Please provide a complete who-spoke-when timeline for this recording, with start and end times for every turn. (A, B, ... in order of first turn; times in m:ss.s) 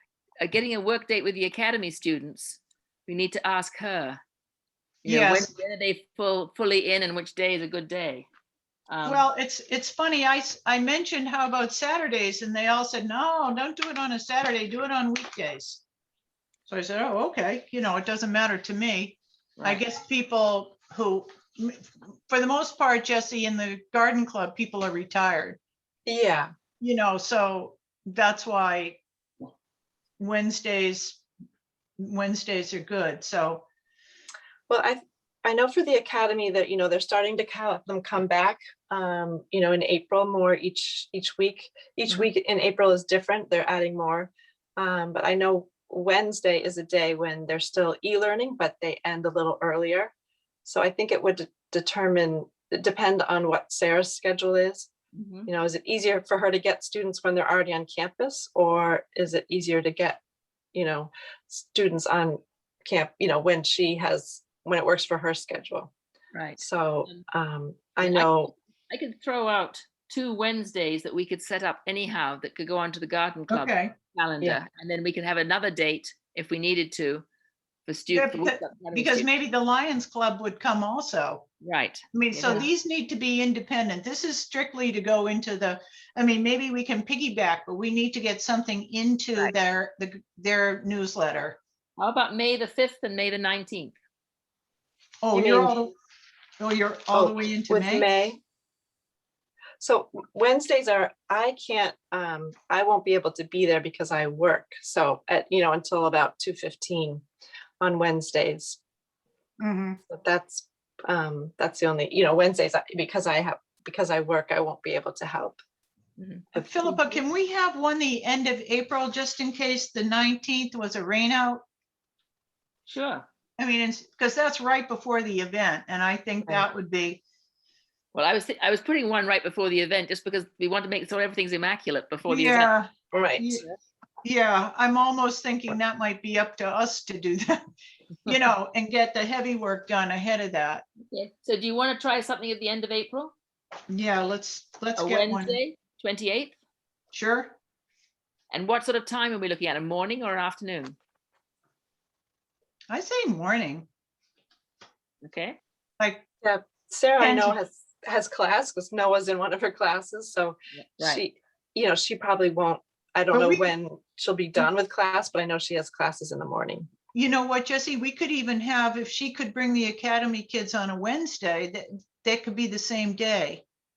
0:00.4-0:04.2 A
0:05.0-0:05.5 B
0:05.0-0:08.3 A
0:08.9-0:09.2 A
0:09.0-0:15.8 B
0:16.7-0:25.6 B
0:26.0-0:26.5 C
0:26.8-0:29.0 B
0:30.2-0:31.2 B
0:32.0-0:33.6 B
0:34.7-0:50.1 C
0:50.6-0:54.9 C
0:55.1-0:55.5 A
0:55.5-1:00.2 C
1:00.7-1:05.9 C
1:06.3-1:07.2 A
1:06.6-1:08.5 C
1:08.0-1:17.2 A
1:13.5-1:13.9 B
1:17.8-1:19.3 A
1:18.1-1:21.4 B
1:21.6-1:22.7 A
1:22.1-1:31.6 B
1:32.0-1:34.0 A
1:35.2-1:35.9 B
1:35.3-1:35.8 C
1:36.6-1:38.0 B
1:37.1-1:38.4 C
1:39.8-1:47.2 C
1:47.8-1:48.8 C
1:49.6-1:50.0 B
1:50.1-1:55.6 C
1:56.2-1:56.4 A
1:56.5-1:56.9 C
1:56.5-2:01.6 B
2:02.8-2:03.2 A
2:03.6-2:07.2 B
2:08.1-2:12.7 A
2:12.2-2:13.6 B
2:13.1-2:13.6 C
2:14.2-2:17.6 B
2:18.2-2:20.8 B
2:21.1-2:23.3 A
2:23.9-2:25.6 B
2:25.0-2:26.5 A
2:27.1-2:27.5 B
2:28.5-2:31.0 A
2:32.9-2:33.9 B
2:35.2-2:35.6 A
2:36.0-2:36.3 B
2:36.4-2:46.9 C
2:37.2-2:37.6 B
2:40.7-2:41.2 A
2:43.3-2:43.7 B
2:47.1-2:53.6 B